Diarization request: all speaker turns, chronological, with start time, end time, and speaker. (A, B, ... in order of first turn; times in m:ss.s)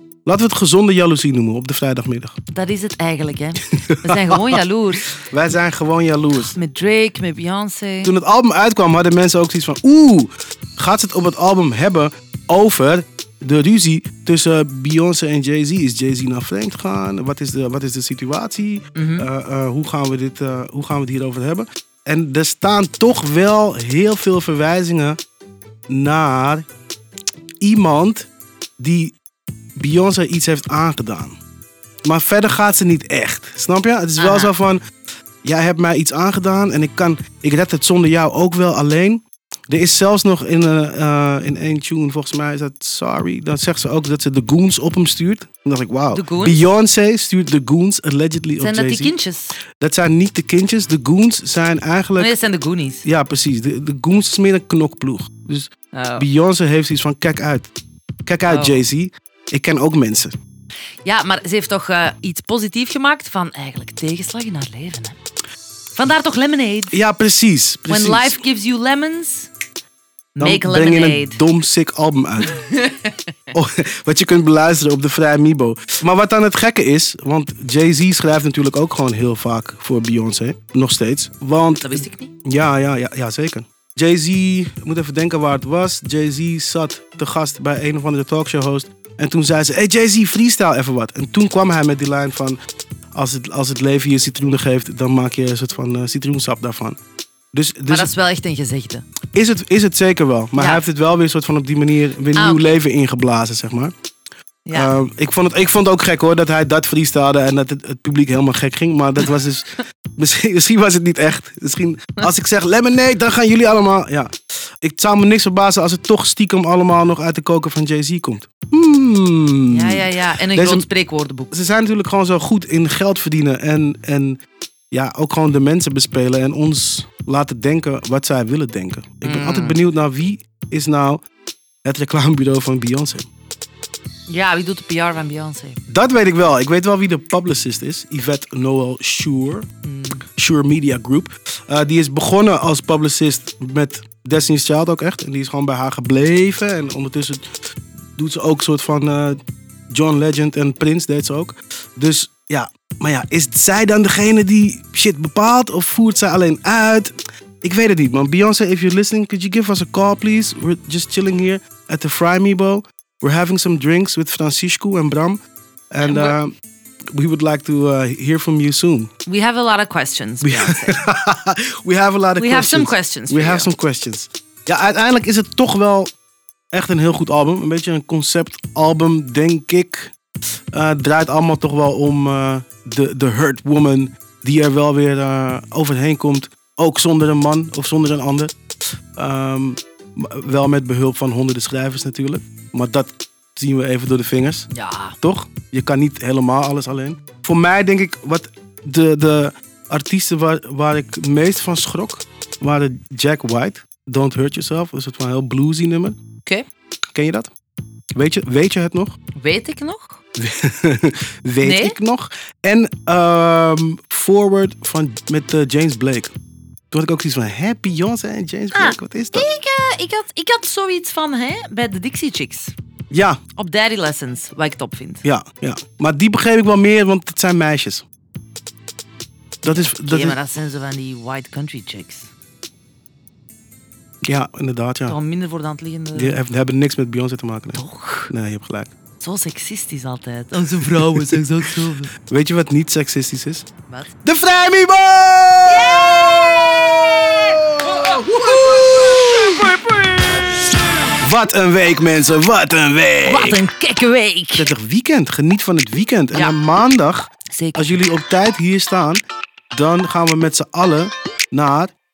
0:00.2-0:02.3 A
0:02.5-0:08.2 B
0:03.6-0:06.5 A
0:08.0-0:25.2 A
0:18.9-0:19.3 B
0:25.9-0:26.6 A
0:27.6-0:28.3 A
0:28.8-0:29.1 A
0:29.8-0:31.3 A
0:32.0-0:34.8 A
0:34.2-0:34.6 B
0:35.4-0:49.2 A
0:45.5-0:46.7 B
0:48.6-0:49.6 B
0:49.8-0:52.4 A
0:52.1-0:53.4 B
0:53.0-0:57.6 A
0:55.9-0:56.3 B
0:58.2-1:00.3 A
0:58.4-0:58.9 B
1:01.0-1:05.2 B
1:05.9-1:07.1 B
1:06.9-1:08.5 A
1:07.8-1:09.5 B
1:10.4-1:11.7 B
1:10.4-1:12.6 A
1:12.4-1:13.1 B
1:13.5-1:32.6 A
1:21.8-1:22.3 B
1:33.1-1:37.0 A
1:37.5-1:38.2 A
1:37.9-1:39.0 B
1:39.3-1:43.9 A
1:40.5-1:40.8 B
1:42.3-1:42.8 B
1:44.6-1:45.0 B
1:44.7-2:00.9 A
1:59.7-2:01.5 B
2:01.5-2:04.4 A
2:04.9-2:11.2 A
2:09.1-2:10.0 B
2:11.8-2:13.3 A
2:14.3-2:15.8 B
2:15.9-2:19.6 A
2:19.8-2:20.3 B
2:20.3-2:27.4 A
2:28.2-2:29.4 A
2:29.9-2:45.4 A
2:45.9-2:46.5 A
2:46.0-2:46.4 B
2:47.1-2:49.1 A
2:49.2-2:51.1 B
2:50.4-2:56.1 A
2:52.3-2:53.7 B
2:56.7-3:00.1 A
3:00.7-3:08.5 A
3:09.2-3:14.7 A
3:14.7-3:15.7 B
3:15.2-3:26.2 A
3:27.1-3:27.5 A
3:28.2-3:29.1 A
3:29.3-3:30.2 B
3:30.4-3:36.3 A
3:31.6-3:32.0 B
3:36.9-3:39.5 A
3:38.7-3:42.7 B
3:43.1-3:43.4 A
3:43.5-3:45.2 B
3:45.2-3:48.0 A
3:49.6-3:50.4 A
3:49.6-3:52.3 B
3:54.2-3:55.2 A
3:55.0-3:56.4 B
3:56.1-3:58.9 A
3:57.7-3:58.3 B
3:59.2-4:02.1 B
4:00.6-4:03.7 A
4:04.2-4:09.7 A
4:05.6-4:10.4 B
4:11.2-4:13.6 A
4:13.2-4:14.7 B
4:14.6-4:19.2 A
4:16.3-4:16.7 B
4:17.5-4:17.9 B
4:19.7-4:21.9 A